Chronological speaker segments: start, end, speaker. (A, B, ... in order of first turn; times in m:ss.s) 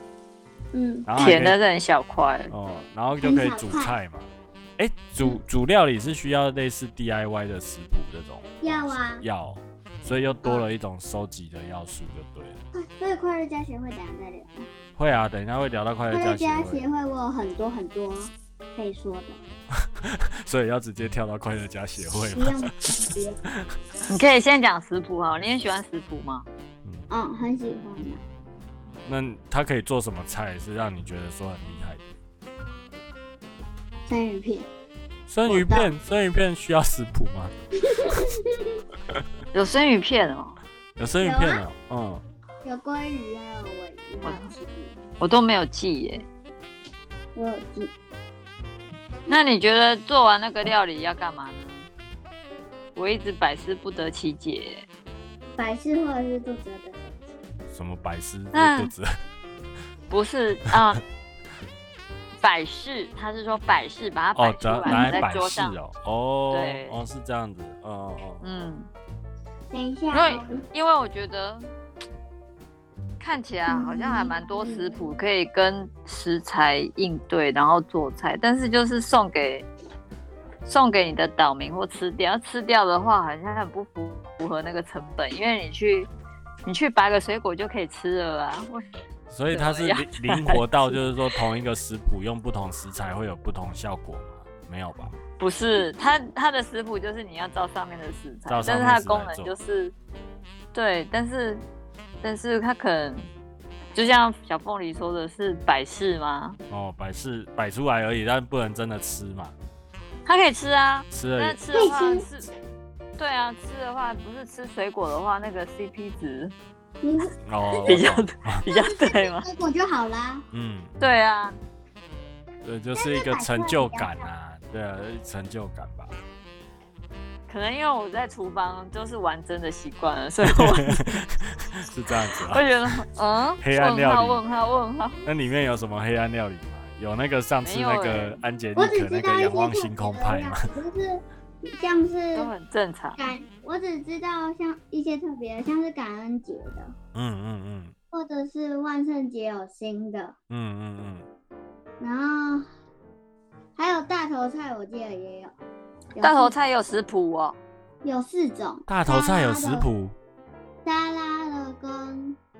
0:00.7-0:01.1 A
0:01.0-0:01.6 B
0:01.2-0:02.5 C
0:02.5-0:12.6 B
0:03.2-0:04.0 A
0:08.6-0:09.2 A
0:12.7-0:14.7 A
0:15.0-0:16.8 B
0:16.1-0:19.4 A
0:19.7-0:23.0 B
0:22.3-0:23.4 A
0:23.5-0:23.8 B
0:24.1-0:26.4 C
0:27.1-0:28.2 A
0:29.0-0:32.1 B
0:34.1-0:34.7 A
0:35.3-0:37.5 B
0:35.4-0:35.9 A
0:37.8-0:38.8 A
0:39.5-0:40.6 C
0:41.0-0:42.2 B
0:41.2-0:41.6 A
0:42.6-0:45.0 A
0:44.2-0:44.5 C
0:45.2-0:46.2 C
0:47.3-0:47.9 A
0:49.3-0:51.9 C
0:52.9-0:54.8 C
0:55.6-0:57.1 A
0:57.7-0:59.1 B
0:58.5-0:58.9 C
1:00.1-1:01.0 C
1:02.4-1:05.8 C
1:04.4-1:08.4 B
1:04.8-1:05.3 A
1:06.5-1:07.0 C
1:08.4-1:08.9 C
1:09.7-1:10.6 A
1:10.1-1:11.7 C
1:13.2-1:19.7 C
1:13.7-1:15.2 A
1:20.6-1:26.1 C
1:26.6-1:28.9 C
1:29.3-1:35.2 B
1:29.5-1:31.4 C
1:35.4-1:39.9 C
1:38.5-1:39.5 B
1:40.7-1:41.6 C
1:42.2-1:43.3 C
1:43.9-1:46.6 C
1:46.7-1:49.5 B
1:50.2-1:52.5 C
1:51.1-1:51.6 B
1:51.7-1:52.3 A
1:53.2-1:56.5 C
1:57.0-1:58.0 A
1:57.4-1:58.6 B
1:57.8-1:59.4 C
1:58.6-2:00.4 A
2:00.5-2:00.9 B
2:01.0-2:01.6 C
2:02.6-2:06.2 B
2:02.9-2:04.3 A
2:07.5-2:11.2 C
2:10.4-2:13.0 B
2:12.4-2:15.3 C
2:13.6-2:14.4 B
2:15.2-2:20.7 B
2:17.6-2:18.4 C
2:18.8-2:22.5 A
2:22.3-2:23.2 C
2:23.2-2:26.9 A
2:27.1-2:27.9 B
2:28.1-2:30.3 A
2:30.5-2:31.3 B
2:32.0-2:32.7 A
2:33.8-2:35.5 A
2:36.1-2:36.5 A
2:36.2-2:37.6 C
2:38.0-2:39.9 A
2:38.9-2:40.1 B
2:40.8-2:42.4 A